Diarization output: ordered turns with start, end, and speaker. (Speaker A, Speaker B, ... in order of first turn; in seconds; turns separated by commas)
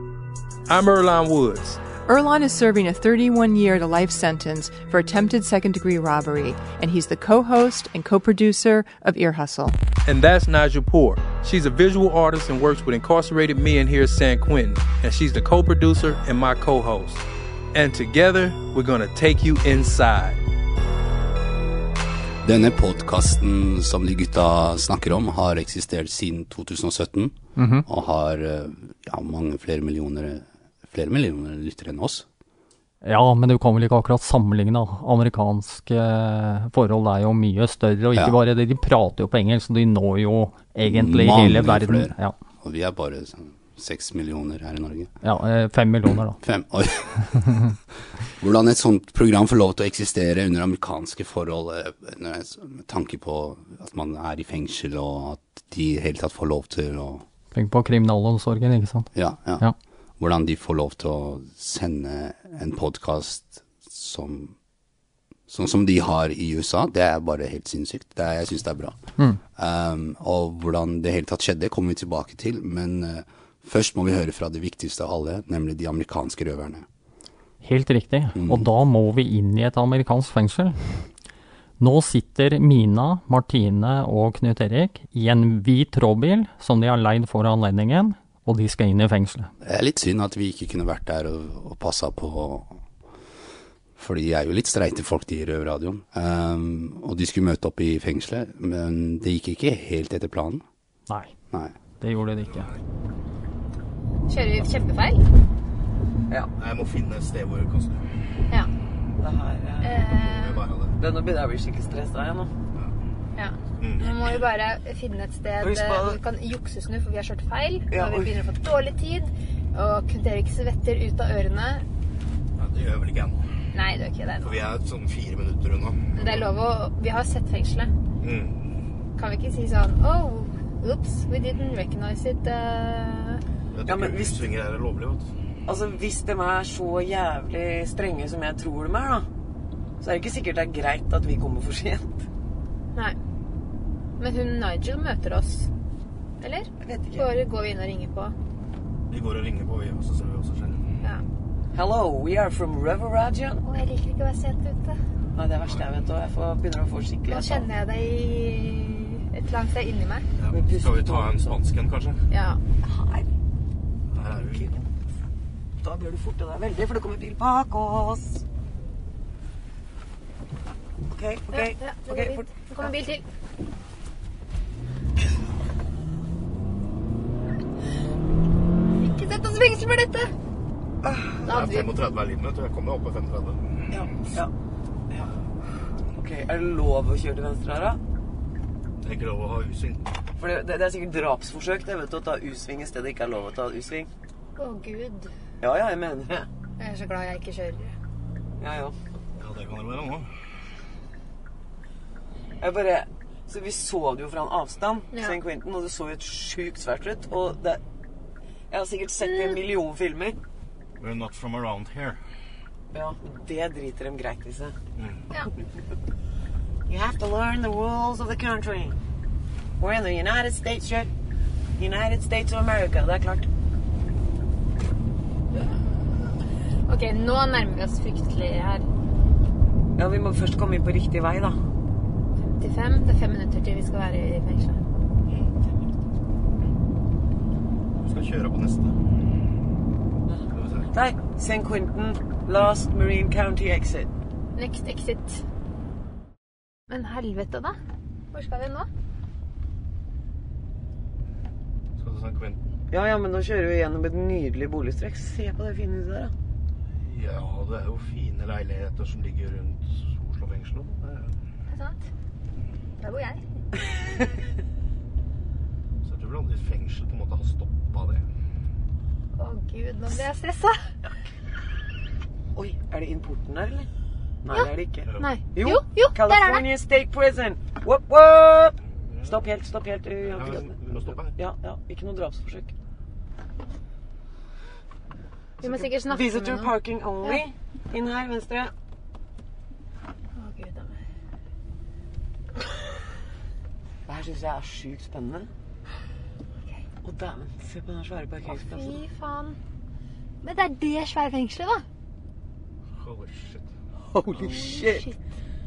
Speaker A: 0.7-1.8, Speaker B: 2.1-9.8, Speaker A: 10.1-20.4, Speaker C: 22.4-32.2, Speaker D: 27.6-27.8, Speaker D: 33.0-42.4, Speaker C: 40.8-45.1, Speaker D: 45.2-46.4, Speaker C: 46.4-47.7, Speaker C: 48.3-57.2, Speaker D: 57.5-59.7, Speaker C: 59.1-64.5, Speaker C: 65.5-76.8, Speaker D: 77.6-81.1, Speaker C: 78.3-78.7, Speaker D: 81.8-89.5, Speaker C: 89.6-92.8, Speaker C: 94.0-100.6, Speaker D: 102.0-102.7, Speaker E: 102.4-102.8, Speaker F: 104.3-105.3, Speaker E: 106.5-108.2, Speaker G: 109.2-110.0, Speaker F: 109.8-110.7, Speaker E: 110.1-111.0, Speaker G: 111.0-112.5, Speaker F: 113.3-121.8, Speaker E: 113.8-114.5, Speaker G: 115.6-116.2, Speaker G: 117.9-118.4, Speaker E: 122.5-123.5, Speaker F: 123.7-124.6, Speaker E: 124.4-126.5, Speaker F: 126.1-127.9, Speaker E: 128.2-128.7, Speaker F: 129.2-133.4, Speaker E: 133.7-135.3, Speaker G: 133.8-134.4, Speaker G: 135.7-139.3, Speaker G: 140.0-142.2, Speaker F: 144.2-145.7, Speaker F: 146.4-148.3, Speaker G: 146.8-147.3, Speaker E: 149.1-151.0, Speaker G: 151.7-153.6, Speaker F: 153.6-154.9, Speaker G: 155.3-157.7, Speaker F: 157.3-160.2, Speaker E: 160.4-162.2, Speaker G: 160.5-161.4, Speaker F: 162.3-162.6, Speaker G: 162.8-163.3, Speaker E: 164.1-164.8, Speaker G: 164.3-164.8, Speaker G: 165.8-168.4, Speaker G: 171.1-172.9, Speaker F: 171.5-173.2, Speaker F: 179.0-180.3, Speaker G: 181.0-181.5, Speaker E: 181.4-183.7, Speaker F: 181.4-181.9, Speaker G: 183.9-184.5, Speaker G: 186.2-188.0, Speaker E: 189.0-190.1, Speaker G: 190.4-194.1, Speaker F: 194.6-195.3, Speaker G: 195.6-196.5, Speaker F: 196.8-197.9, Speaker G: 198.6-198.9, Speaker E: 199.4-200.3, Speaker G: 202.6-207.8, Speaker F: 205.1-205.4, Speaker G: 208.7-210.4, Speaker F: 209.2-209.6, Speaker E: 211.0-212.2, Speaker G: 212.9-214.8, Speaker E: 214.9-215.2, Speaker G: 216.9-218.9, Speaker G: 219.8-221.1, Speaker G: 221.8-223.5, Speaker F: 226.9-228.8, Speaker G: 230.0-231.6, Speaker F: 232.4-234.8, Speaker E: 238.0-239.0, Speaker G: 240.3-244.1, Speaker E: 240.5-240.9, Speaker F: 244.5-245.4, Speaker F: 246.9-247.8, Speaker F: 248.3-248.9, Speaker E: 252.0-252.6, Speaker G: 252.9-256.3, Speaker E: 257.0-261.3, Speaker F: 261.7-262.0, Speaker F: 263.0-263.4, Speaker E: 266.0-268.2, Speaker F: 269.4-270.8, Speaker G: 272.5-273.9, Speaker G: 274.4-280.8, Speaker F: 274.5-276.6, Speaker E: 275.0-275.3, Speaker E: 279.0-279.4, Speaker E: 280.2-281.4, Speaker G: 281.4-282.7, Speaker F: 285.6-287.5, Speaker G: 285.6-288.7, Speaker F: 290.4-291.0, Speaker G: 294.1-295.5, Speaker G: 297.0-299.0, Speaker F: 298.4-299.6, Speaker F: 300.4-301.8, Speaker E: 302.9-303.7, Speaker G: 304.1-305.1, Speaker F: 304.3-305.1